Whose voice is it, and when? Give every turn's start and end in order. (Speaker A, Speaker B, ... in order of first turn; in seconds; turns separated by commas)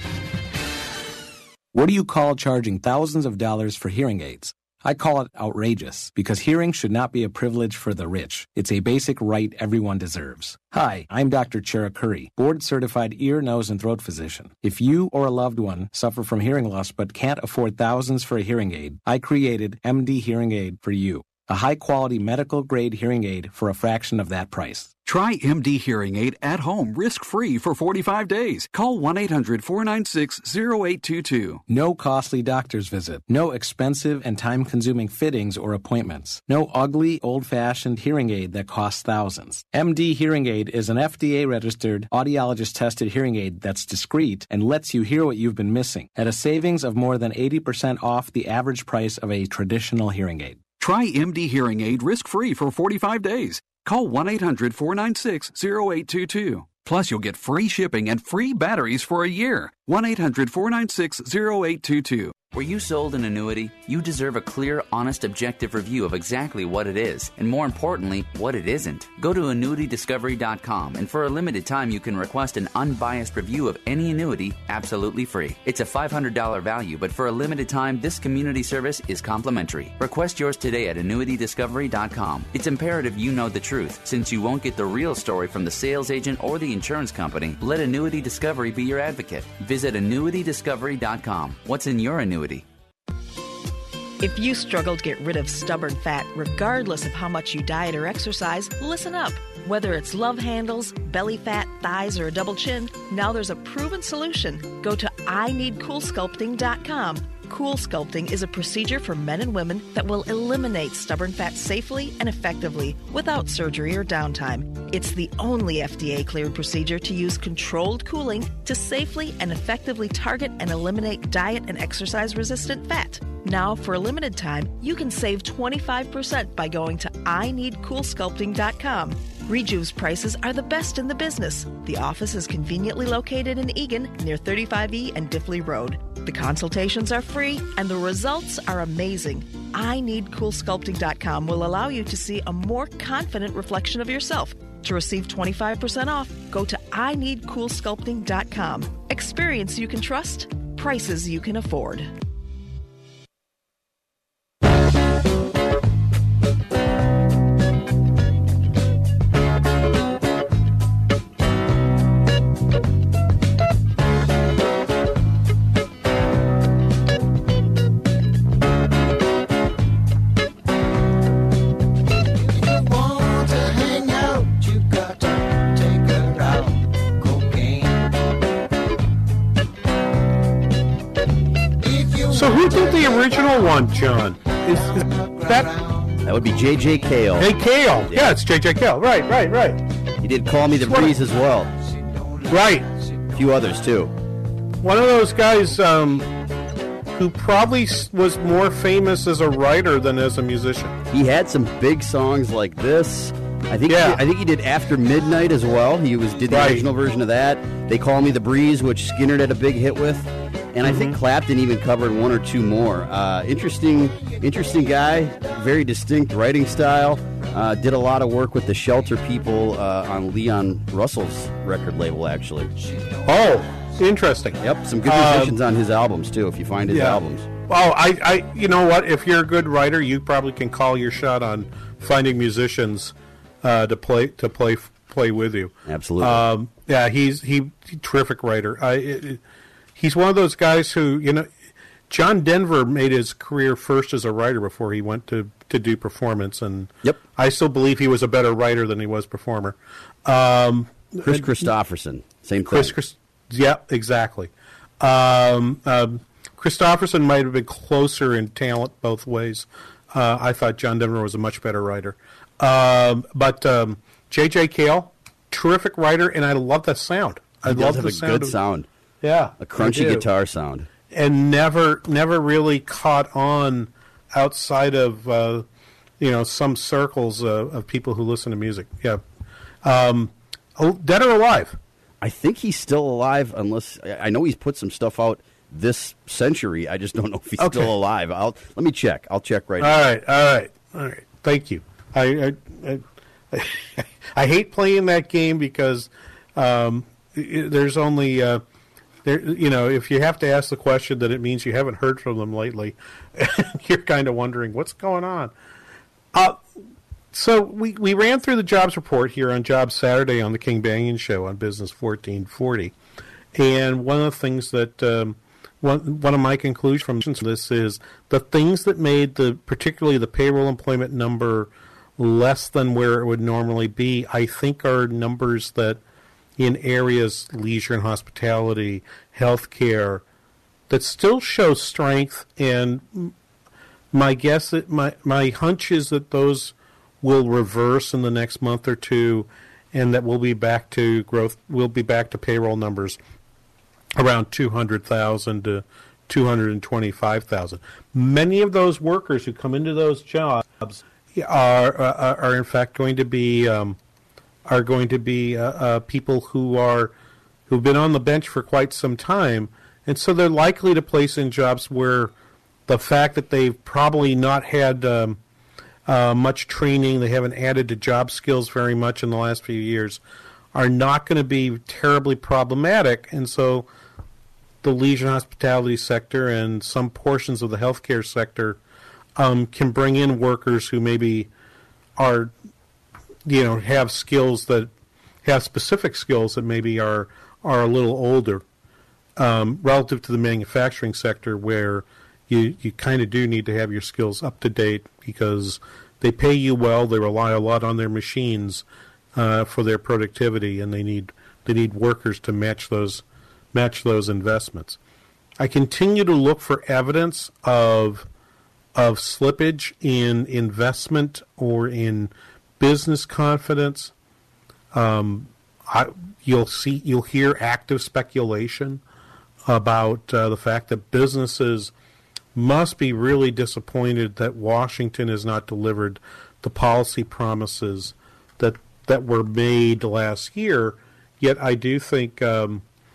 Speaker A: 1.7-25.0, Speaker B: 25.0-31.6, Speaker A: 31.7-50.7, Speaker B: 50.7-62.4, Speaker C: 62.5-92.6, Speaker D: 94.2-152.1, Speaker E: 182.2-185.8, Speaker F: 186.2-187.5, Speaker E: 187.4-189.8, Speaker F: 190.2-191.7, Speaker E: 190.8-191.1, Speaker E: 192.5-192.9, Speaker F: 193.3-194.1, Speaker E: 194.8-196.3, Speaker E: 197.1-201.0, Speaker F: 201.1-222.7, Speaker E: 203.9-204.2, Speaker E: 206.5-206.9, Speaker E: 210.9-211.2, Speaker E: 223.2-225.6, Speaker F: 224.6-227.5, Speaker E: 226.9-239.4, Speaker F: 235.8-236.4, Speaker E: 239.9-241.5, Speaker E: 242.1-251.7, Speaker F: 251.3-252.9, Speaker E: 252.7-268.6, Speaker F: 267.6-268.9, Speaker E: 269.2-270.3, Speaker F: 269.6-270.9, Speaker E: 271.1-275.6, Speaker E: 276.2-279.2, Speaker E: 279.8-281.8, Speaker F: 282.2-290.0, Speaker E: 287.6-287.9, Speaker E: 289.8-298.6, Speaker E: 299.2-305.5, Speaker E: 306.3-306.6, Speaker E: 307.3-312.9, Speaker E: 313.5-326.0, Speaker E: 326.6-330.2, Speaker E: 330.9-333.3, Speaker E: 334.1-343.2, Speaker E: 344.2-354.0, Speaker E: 354.7-357.1, Speaker E: 357.7-362.3, Speaker E: 362.9-365.4, Speaker E: 366.1-370.2, Speaker E: 370.7-373.9, Speaker E: 374.8-378.8, Speaker E: 379.4-381.5, Speaker E: 382.2-382.5, Speaker E: 383.4-384.9, Speaker E: 385.4-388.6, Speaker E: 389.4-405.0, Speaker E: 405.6-408.3, Speaker E: 408.9-414.1, Speaker E: 414.9-419.0, Speaker E: 419.7-421.9, Speaker E: 422.5-432.8